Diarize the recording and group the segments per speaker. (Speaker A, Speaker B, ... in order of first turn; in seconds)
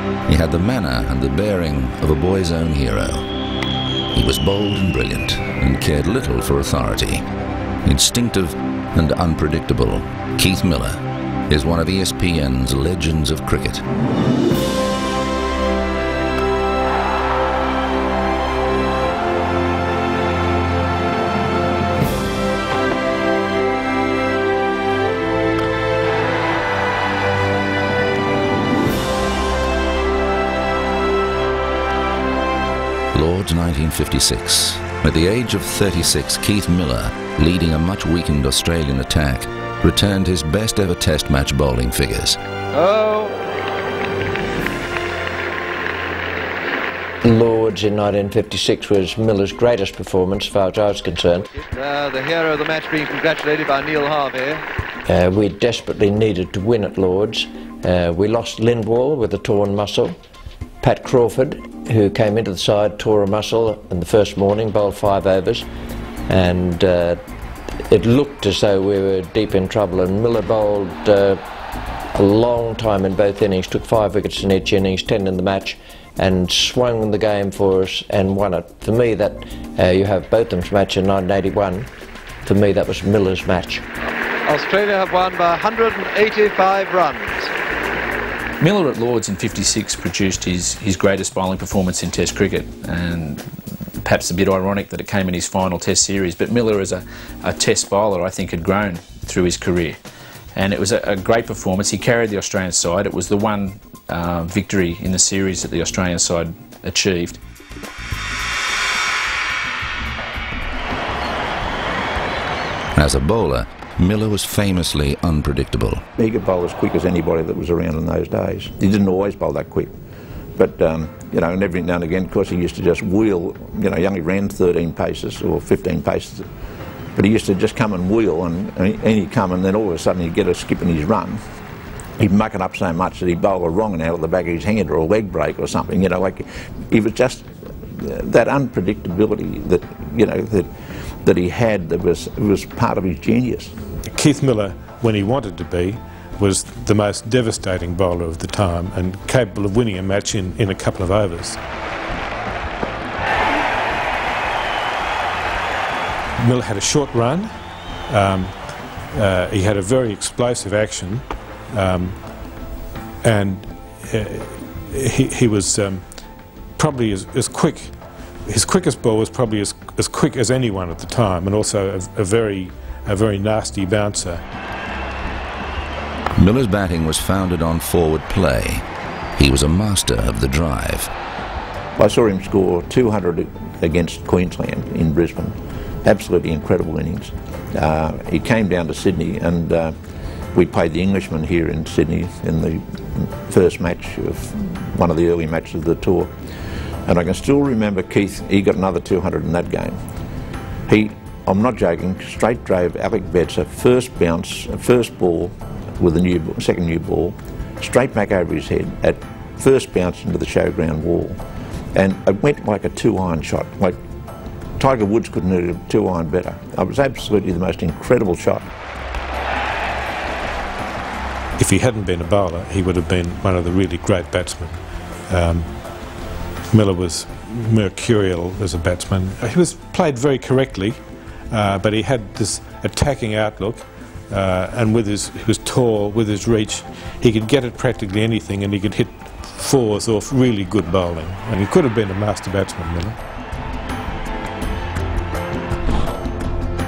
Speaker A: 0.3-3.3, 4.1-7.2, 7.8-13.8, 33.1-42.4, 113.0-116.0, 176.3-178.8, 179.4-181.1
Speaker B: 42.7-43.4, 51.6-54.6, 84.5-87.5
Speaker C: 47.2-51.5, 55.1-60.2, 60.8-65.7, 66.3-67.2, 67.8-71.4, 72.1-81.9, 82.4-83.8
Speaker D: 88.6-93.5, 94.0-100.0, 100.5-107.4
Speaker E: 116.2-119.9, 120.6-126.5, 127.2-131.4, 132.2-140.7, 141.2-143.7, 182.0-190.0, 190.5-196.3, 197.1-200.0, 200.9-211.4, 211.9-214.0, 214.8-218.7
Speaker F: 144.1-151.6, 156.4-157.5, 158.1-158.6, 159.1-162.2, 163.2-166.1, 166.8-167.9, 168.5-174.4, 221.6-225.8, 226.7-243.2